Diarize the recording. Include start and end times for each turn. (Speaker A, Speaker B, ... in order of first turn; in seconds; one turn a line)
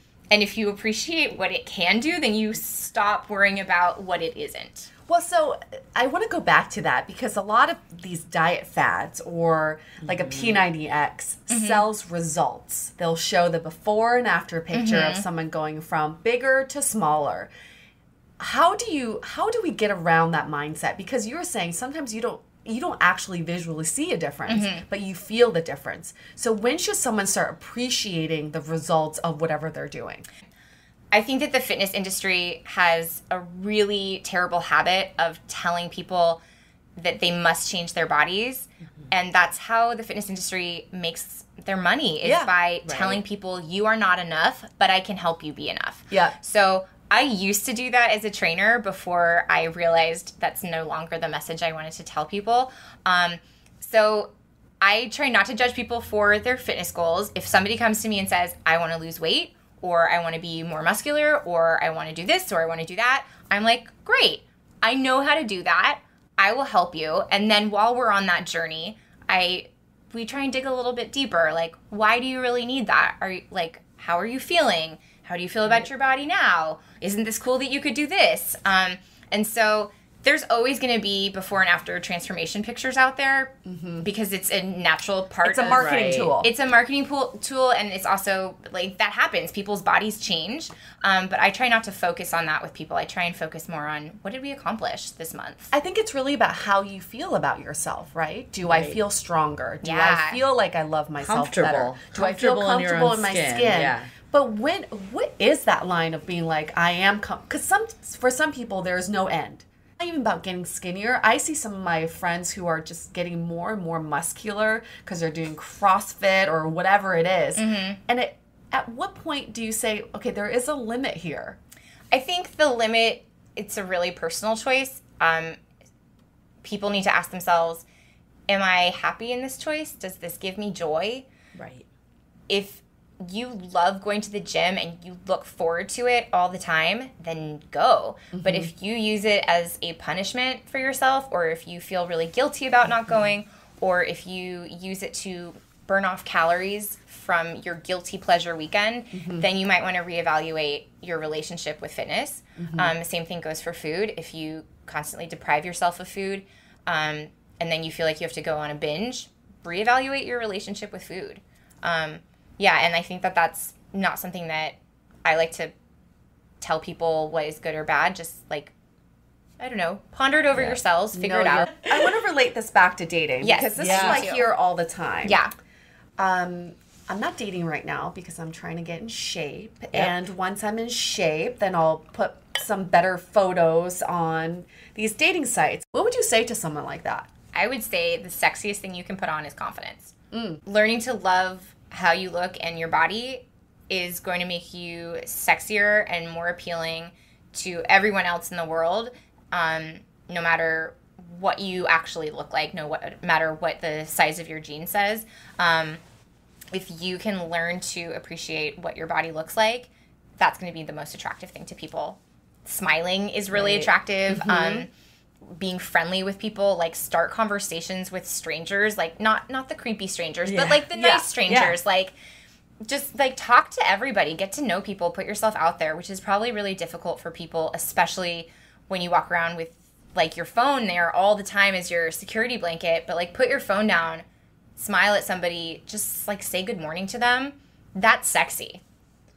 Speaker A: 0.3-4.9
Speaker B: 5.1-17.5
Speaker C: 10.0-10.6
Speaker A: 11.5-11.8
Speaker A: 14.7-15.2
Speaker B: 18.4-30.2
Speaker A: 24.5-24.8
Speaker A: 31.1-36.4
Speaker A: 37.0-95.7
Speaker B: 42.2-42.5
Speaker C: 42.9-43.2
Speaker B: 46.1-46.4
Speaker B: 83.7-84.1
Speaker B: 85.4-86.5
Speaker C: 85.6-86.3
Speaker B: 95.7-121.6
Speaker C: 98.7-99.0
Speaker A: 99.8-100.4
Speaker C: 101.2-104.1
Speaker A: 117.6-118.0
Speaker A: 122.1-125.6
Speaker A: 126.6-127.8
Speaker A: 128.5-131.3
Speaker C: 131.6-131.9
Speaker A: 132.5-165.7
Speaker B: 138.3-138.7
Speaker B: 149.1-149.5
Speaker B: 152.6-152.9
Speaker A: 166.6-168.7
Speaker A: 169.6-171.7
Speaker B: 171.1-175.4
Speaker A: 173.4-174.5
Speaker C: 173.8-174.2
Speaker A: 175.2-175.5
Speaker B: 176.2-187.3
Speaker A: 187.5-190.1
Speaker B: 190.3-190.6
Speaker A: 190.7-206.0
Speaker A: 206.7-214.9
Speaker C: 213.5-213.9
Speaker B: 214.3-214.9
Speaker A: 215.5-222.1
Speaker C: 220.4-220.9
Speaker B: 220.9-221.2
Speaker C: 221.5-221.8
Speaker A: 222.8-234.2
Speaker A: 234.8-238.8